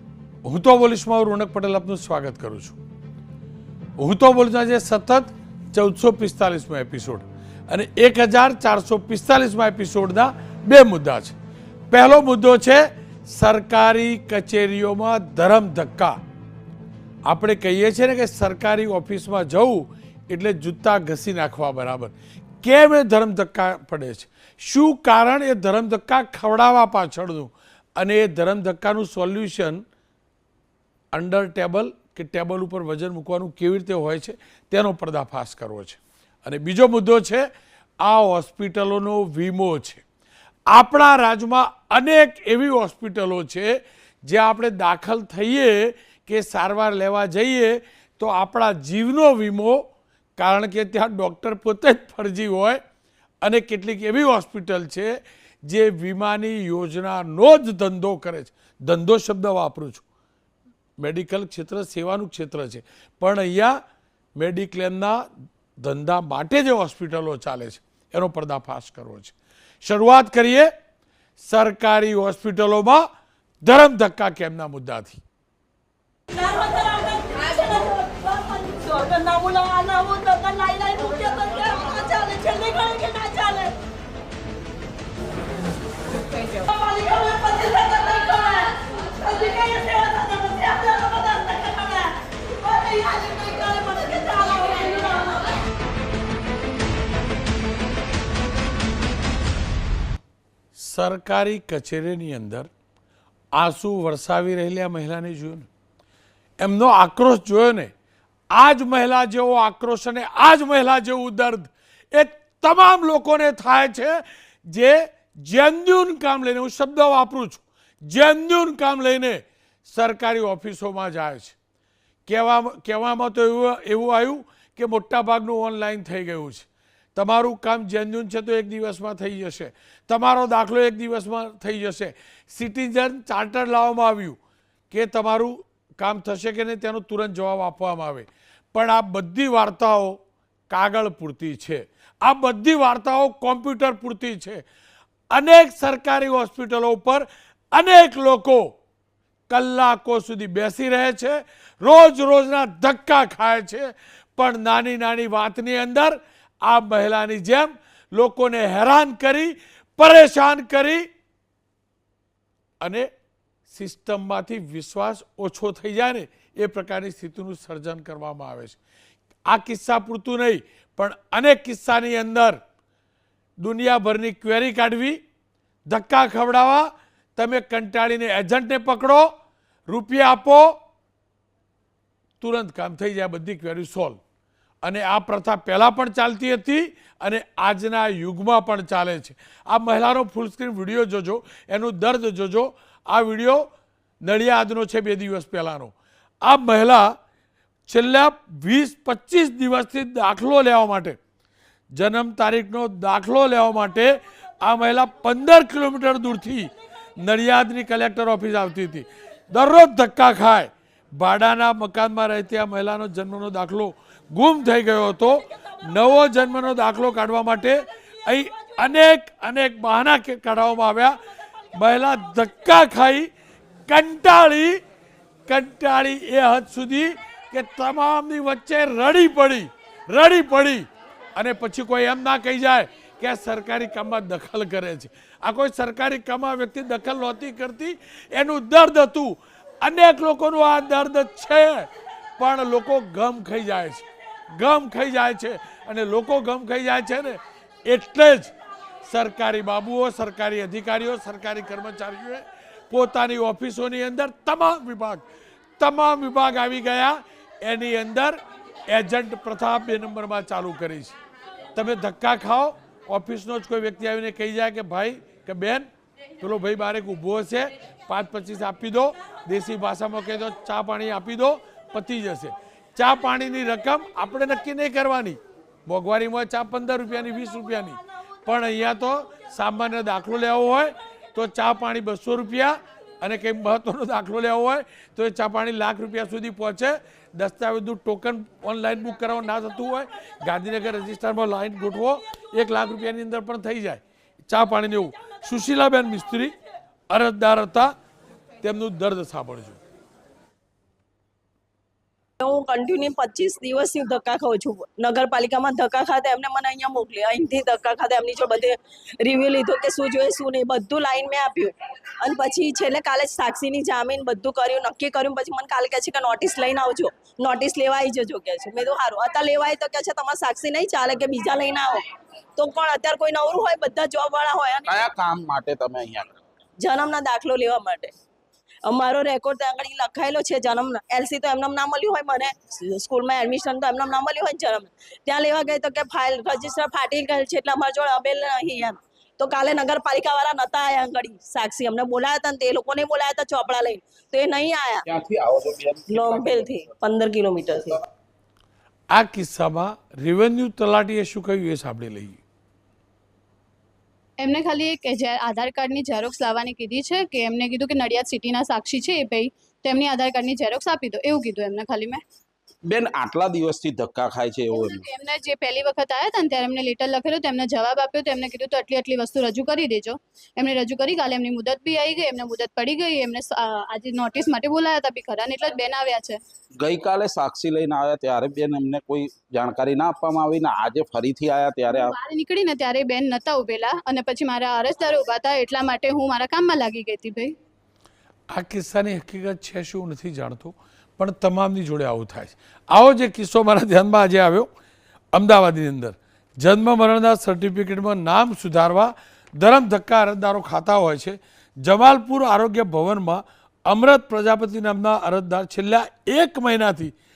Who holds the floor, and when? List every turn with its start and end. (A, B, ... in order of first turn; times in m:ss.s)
0:00.4-0:02.8 A
0:04.0-0:11.4 A
0:11.9-0:16.2 A
0:17.3-0:29.8 A
0:31.1-0:37.4 A
0:38.0-0:40.0 A
0:40.7-0:43.7 A
0:44.2-0:49.8 A
0:50.4-0:52.8 A
0:53.4-1:00.0 A
1:01.0-1:03.8 A
1:04.4-1:05.2 A
1:05.8-1:10.7 A
1:11.4-1:13.0 A
1:13.6-1:15.2 A
1:16.3-1:23.7 B
1:26.7-1:35.5 B
1:40.8-1:42.7 A
1:43.5-1:45.7 A
1:46.6-1:47.9 A
1:48.5-2:01.5 A
2:02.3-2:14.4 A
2:14.9-2:20.2 A
2:20.7-2:24.6 A
2:25.3-2:28.7 A
2:29.5-2:41.0 A
2:42.8-2:43.1 A
2:43.7-2:48.8 A
2:49.4-2:52.6 A
2:53.6-2:55.2 A
2:55.9-2:59.3 A
2:59.9-3:00.8 A
3:02.4-3:04.2 A
3:04.8-3:13.7 A
3:14.2-3:15.9 A
3:16.4-3:17.1 A
3:17.9-3:21.2 A
3:21.9-3:41.2 A
3:41.7-3:43.3 A
3:43.9-3:44.8 A
3:45.5-4:08.5 A
4:09.1-4:15.2 A
4:15.8-4:21.1 A
4:21.7-4:25.9 A
4:26.4-4:56.5 A
4:57.1-4:57.9 A
4:58.6-4:59.8 A
5:02.4-5:22.0 B
5:22.6-5:25.0 B
5:24.9-5:26.4 C
5:26.8-5:28.1 B
5:28.9-5:45.0 B
5:45.2-5:46.6 C
5:46.1-5:48.0 B
5:49.1-5:52.4 A
5:54.4-6:02.2 D
6:02.9-6:05.1 C
6:04.7-6:16.4 D
6:16.8-6:22.1 C
6:21.9-6:27.5 D
6:28.5-6:34.7 A
6:35.3-6:47.1 A